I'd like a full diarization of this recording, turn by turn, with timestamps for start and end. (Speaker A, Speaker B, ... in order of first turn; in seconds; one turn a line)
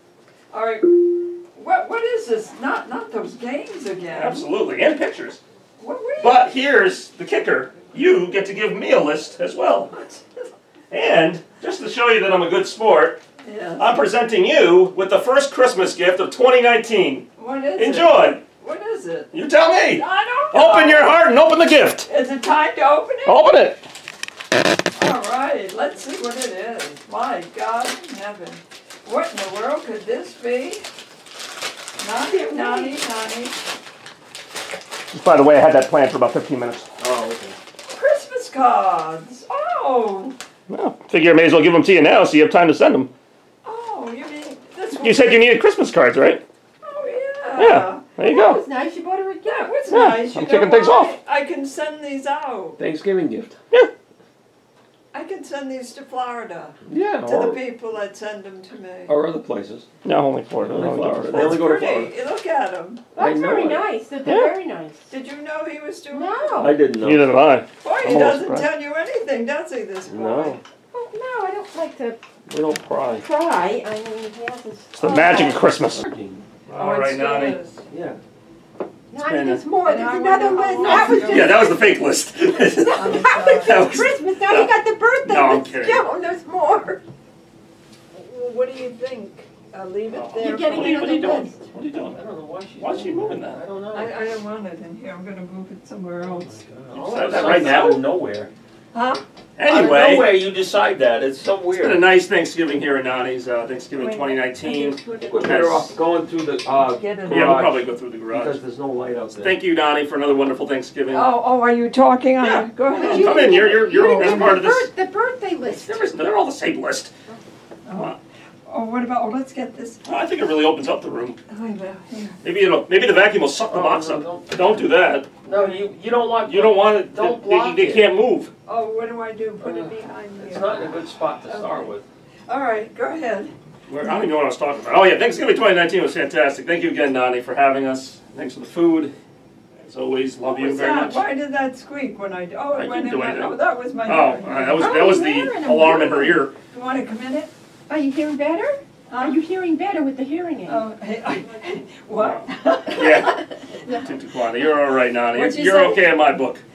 Speaker A: 0.5-4.5
Speaker B: 4.1-5.4
Speaker A: 5.8-6.5
Speaker B: 6.2-9.9
Speaker A: 9.9-10.5
Speaker B: 10.9-13.2
Speaker A: 13.4-14.0
Speaker B: 13.8-18.4
Speaker A: 17.4-19.3
Speaker B: 19.3-22.1
Speaker A: 19.9-21.2
Speaker A: 22.1-23.4
Speaker B: 23.3-23.8
Speaker A: 24.9-30.9
Speaker A: 32.0-33.6
Speaker C: 32.2-33.0
Speaker B: 35.1-36.9
Speaker D: 37.0-37.6
Speaker A: 37.9-40.4
Speaker B: 40.7-43.1
Speaker A: 43.6-45.5
Speaker B: 45.0-46.4
Speaker A: 46.8-48.1
Speaker B: 47.6-48.6
Speaker C: 48.2-49.9
Speaker A: 49.4-52.8
Speaker B: 49.9-51.2
Speaker D: 52.8-53.6
Speaker A: 55.1-59.2
Speaker D: 56.9-57.6
Speaker B: 57.2-57.6
Speaker D: 59.1-59.9
Speaker B: 60.0-61.7
Speaker D: 60.6-62.1
Speaker A: 61.3-63.1
Speaker D: 63.1-63.9
Speaker C: 63.2-65.1
Speaker B: 64.2-64.6
Speaker A: 65.1-66.8
Speaker C: 66.1-66.8
Speaker D: 66.5-67.4
Speaker B: 67.0-68.7
Speaker A: 67.8-70.6
Speaker D: 70.1-70.6
Speaker C: 70.9-72.2
Speaker D: 72.5-73.3
Speaker C: 73.0-75.8
Speaker B: 75.0-76.0
Speaker D: 75.8-76.5
Speaker B: 76.7-77.6
Speaker A: 76.8-77.8
Speaker D: 77.9-78.2
Speaker C: 79.1-81.9
Speaker B: 79.2-79.7
Speaker A: 79.8-81.8
Speaker B: 81.1-86.0
Speaker C: 82.6-87.0
Speaker A: 82.9-84.1
Speaker A: 88.1-91.6
Speaker B: 90.1-92.2
Speaker C: 90.3-91.5
Speaker D: 92.0-94.2
Speaker B: 92.8-93.6
Speaker A: 93.9-96.6
Speaker D: 96.2-98.5
Speaker B: 96.9-98.0
Speaker A: 97.1-98.0
Speaker A: 98.9-99.2
Speaker B: 99.6-100.4
Speaker D: 99.6-102.2
Speaker B: 101.7-105.8
Speaker A: 104.1-105.9
Speaker D: 105.1-109.6
Speaker A: 106.8-107.8
Speaker B: 107.3-108.6
Speaker B: 109.4-111.3
Speaker A: 111.1-114.6
Speaker B: 112.4-114.9
Speaker C: 113.0-116.2
Speaker B: 115.7-117.1
Speaker A: 117.8-118.2
Speaker A: 118.7-120.0
Speaker B: 120.0-121.4
Speaker A: 121.5-122.4
Speaker B: 122.4-125.3
Speaker D: 123.6-128.1
Speaker A: 125.5-125.8
Speaker B: 126.4-128.5
Speaker A: 128.7-131.9
Speaker D: 129.6-132.1
Speaker A: 132.5-133.5
Speaker B: 133.9-139.1
Speaker B: 139.8-141.3
Speaker A: 140.4-144.9
Speaker B: 142.7-146.5
Speaker C: 144.8-146.5
Speaker A: 146.7-147.5
Speaker C: 147.9-150.9
Speaker A: 149.1-149.4
Speaker A: 150.7-153.5
Speaker B: 152.2-156.6
Speaker A: 155.3-156.2